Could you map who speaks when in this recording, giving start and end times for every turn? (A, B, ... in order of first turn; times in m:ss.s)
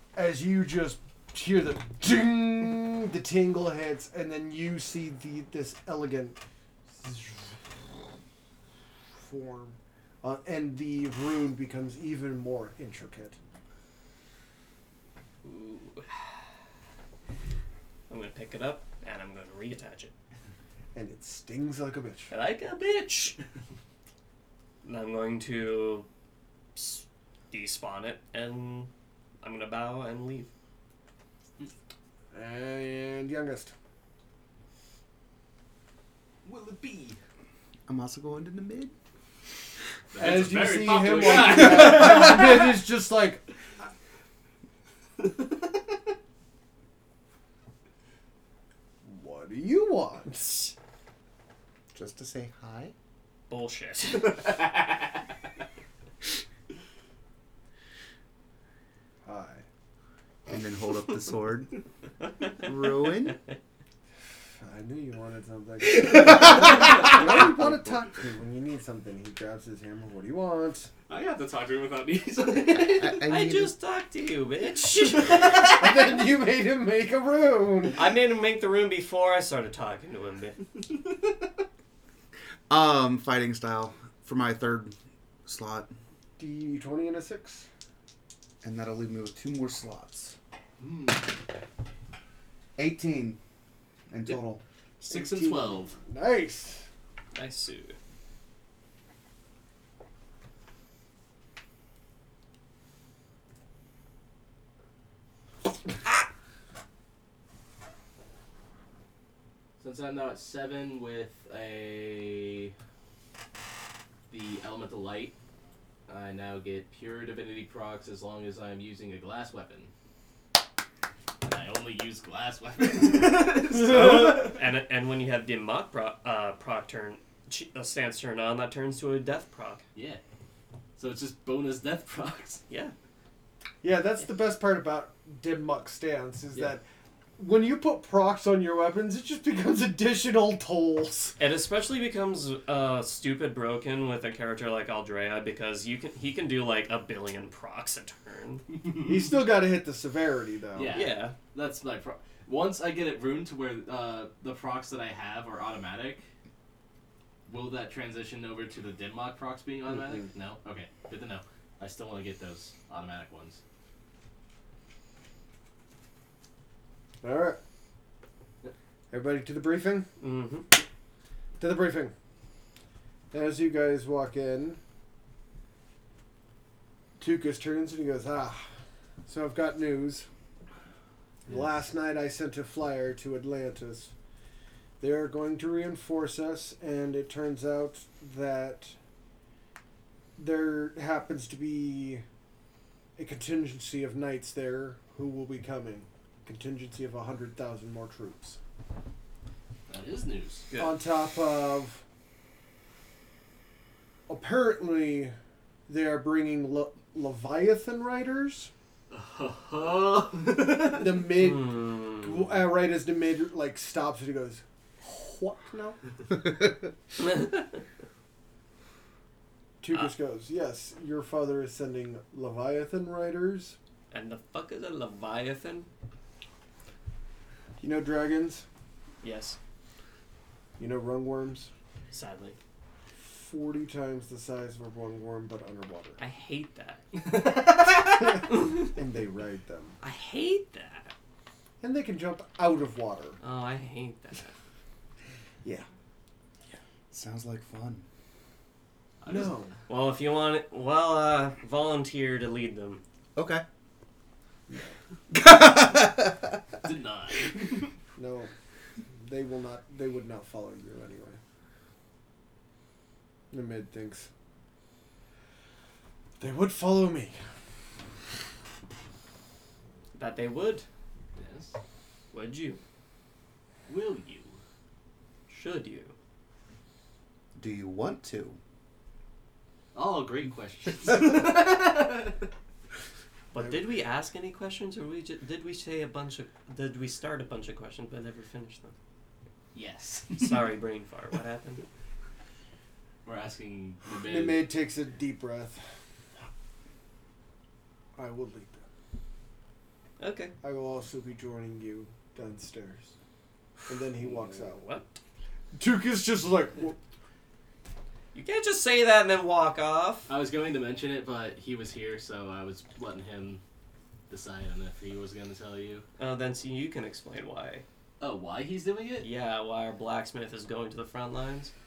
0:00.1-0:06.4 A
0:07.0-0:07.6 A
0:09.2-0:13.4 A
0:15.4-0:16.2 B
0:18.1-0:20.1 B
0:20.9-0:22.3 A
0:22.3-0:23.4 B
0:24.8-0:26.1 B
0:26.8-0:30.5 B
0:32.3-0:33.7 A
0:36.4-0:37.2 C
0:37.9-0:38.9 D
0:40.1-0:42.6 C
0:40.2-0:43.4 A
0:45.2-0:45.6 C
0:49.0-0:50.7 A
0:51.9-0:52.9 D
0:53.5-0:54.6 B
0:59.2-0:59.6 A
1:00.5-1:01.7 D
1:02.6-1:03.4 D
1:04.6-1:10.9 A
1:05.9-1:08.2 D
1:11.1-1:13.2 C
1:12.9-1:13.7 D
1:13.2-1:15.8 B
1:15.3-1:15.6 C
1:15.6-1:18.0 A
1:18.0-1:20.6 B
1:22.7-1:24.9 D
1:25.4-1:25.9 D
1:26.4-1:27.7 A
1:28.6-1:30.4 D
1:30.8-1:31.3 C
1:32.8-1:33.4 D
1:34.1-1:34.6 D
1:35.0-1:36.0 C
1:35.1-1:36.8 A
1:37.3-1:38.0 B
1:49.8-1:52.7 C
1:54.3-1:55.4 C
1:56.1-1:59.9 C
2:01.4-2:04.5 C
2:03.7-2:09.8 B
2:09.9-2:10.2 C
2:11.0-2:12.6 C
2:12.7-2:12.9 B
2:13.8-2:16.8 A
2:17.4-2:21.4 A
2:21.4-2:28.6 B
2:28.8-2:29.2 C
2:29.0-2:31.0 A
2:30.7-2:36.2 C
2:30.9-2:31.4 B
2:37.5-2:43.6 C
2:47.2-2:47.6 A
2:49.1-2:50.1 A
2:50.2-2:50.7 B
2:51.6-2:52.1 A
2:53.3-2:54.8 A
2:57.2-2:58.7 A
2:59.2-3:00.3 A
3:01.5-3:04.1 A
3:05.0-3:09.0 A
3:10.4-3:12.2 A
3:13.2-3:18.6 A
3:19.9-3:20.7 C
3:20.7-3:21.0 B
3:20.7-3:22.0 A
3:24.3-3:25.3 A
3:25.9-3:28.7 A
3:29.1-3:31.1 C
3:30.9-3:36.0 A
3:31.4-3:32.5 B
3:37.2-3:37.6 B
3:39.8-3:43.8 A
3:44.1-3:45.9 B
3:47.8-3:48.6 A
3:49.2-3:49.6 B
3:50.8-3:51.7 A
3:52.1-3:52.6 B
3:53.3-3:56.2 A
3:56.2-3:57.3 B
3:57.2-3:58.4 C
3:57.9-4:00.0 A
3:58.5-3:58.9 B
4:00.0-4:01.1 B
4:01.8-4:03.4 A
4:03.4-4:04.5 B
4:07.1-4:08.0 D
4:09.2-4:09.6 C
4:09.2-4:09.7 A
4:09.9-4:13.0 B
4:13.4-4:13.6 D
4:15.3-4:16.6 D
4:16.8-4:17.9 C
4:18.2-4:18.5 A
4:19.1-4:21.4 A
4:23.5-4:24.3 A
4:26.4-4:27.4 A
4:30.1-4:30.8 B
4:31.4-4:31.7 C
4:32.3-4:32.8 B
4:33.9-4:34.6 C
4:35.5-4:36.1 B
4:37.5-4:38.6 D
4:39.9-4:42.5 C
4:43.5-4:48.9 B
4:49.7-4:50.7 C
4:50.4-4:51.8 B
4:53.2-4:54.7 C
4:54.2-4:55.8 A
4:58.2-4:58.8 A
5:00.2-5:00.5 B
5:00.6-5:03.1 A
5:03.9-5:04.8 A
5:04.2-5:05.2 B
5:05.7-5:07.0 A
5:08.3-5:10.3 B
5:10.3-5:13.6 C
5:14.3-5:16.0 C
5:16.2-5:17.8 B
5:18.2-5:19.3 C
5:19.2-5:21.7 B